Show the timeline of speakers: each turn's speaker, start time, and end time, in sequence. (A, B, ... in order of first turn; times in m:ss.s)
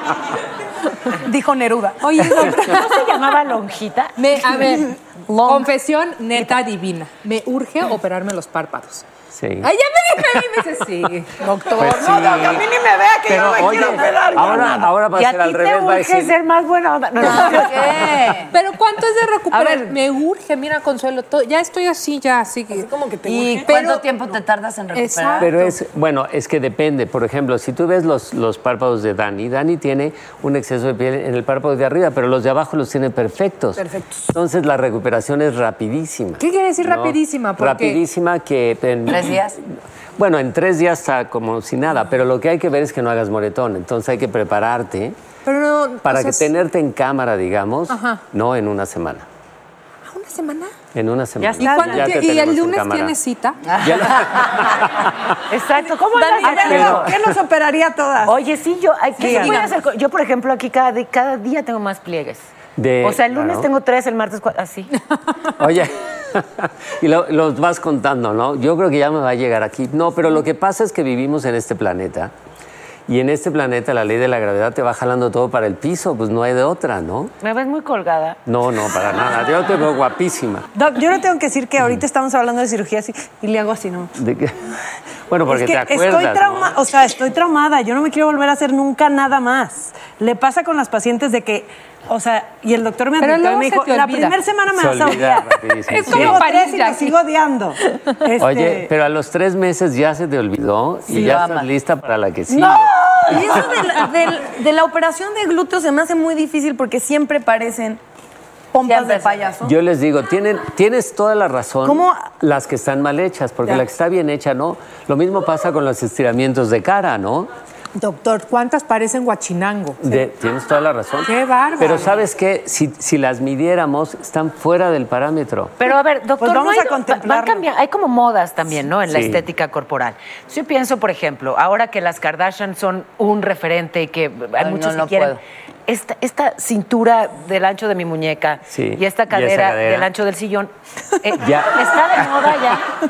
0:01.2-0:02.1 A
0:02.1-0:04.2 B
0:02.4-0:02.8 C
0:04.2-0:09.0 C
0:05.3-0:05.7 A
0:09.3-0:09.7 D
0:09.6-0:11.5 C
0:11.7-0:12.7 D
0:12.0-0:14.9 E
0:13.2-0:16.3 D
0:15.1-0:18.0 B
0:17.2-0:17.7 C
0:17.4-0:18.5 F
0:18.5-0:22.9 C
0:22.7-0:23.7 A
0:23.3-0:25.7 F
0:23.7-0:24.1 C
0:24.9-0:25.8 C
0:25.4-0:39.6 D
0:33.8-0:34.0 C
0:36.4-0:38.0 C
0:39.1-0:39.6 F
0:40.2-0:45.2 D
0:45.4-0:46.5 C
0:46.0-0:49.3 D
0:47.9-0:48.2 C
0:50.1-0:50.7 C
0:50.9-0:53.2 D
0:51.4-0:52.2 E
0:51.6-0:53.6 C
0:53.7-0:55.1 D
0:53.8-0:54.2 F
0:55.5-0:57.2 B
0:56.2-0:56.9 C
0:56.4-0:58.4 E
0:56.7-0:57.3 D
0:58.3-1:02.5 B
0:59.2-0:59.6 E
0:59.2-0:59.6 C
1:02.8-1:03.7 D
1:03.0-1:04.9 B
1:05.6-1:12.3 D
1:13.1-1:17.3 D
1:17.4-1:18.4 B
1:18.5-1:20.6 D
1:20.8-1:24.1 E
1:24.2-1:24.8 D
1:25.3-1:26.8 D
1:25.5-1:38.9 E
1:33.2-1:34.4 C
1:34.7-1:36.5 D
1:35.9-1:37.2 C
1:38.4-1:43.0 D
1:41.1-1:41.7 F
1:43.3-1:48.0 A
1:43.3-1:43.8 F
1:48.7-1:49.7 A
1:48.9-1:49.6 F
1:49.6-1:57.5 D
1:51.9-1:52.2 A
1:58.0-2:00.2 C
2:00.0-2:05.8 D
2:01.3-2:02.2 C
2:05.8-2:20.7 B
2:06.4-2:07.6 E
2:09.1-2:09.5 D
2:14.6-2:15.4 F
2:18.7-2:20.1 D
2:21.2-2:22.9 B
2:21.4-2:22.3 D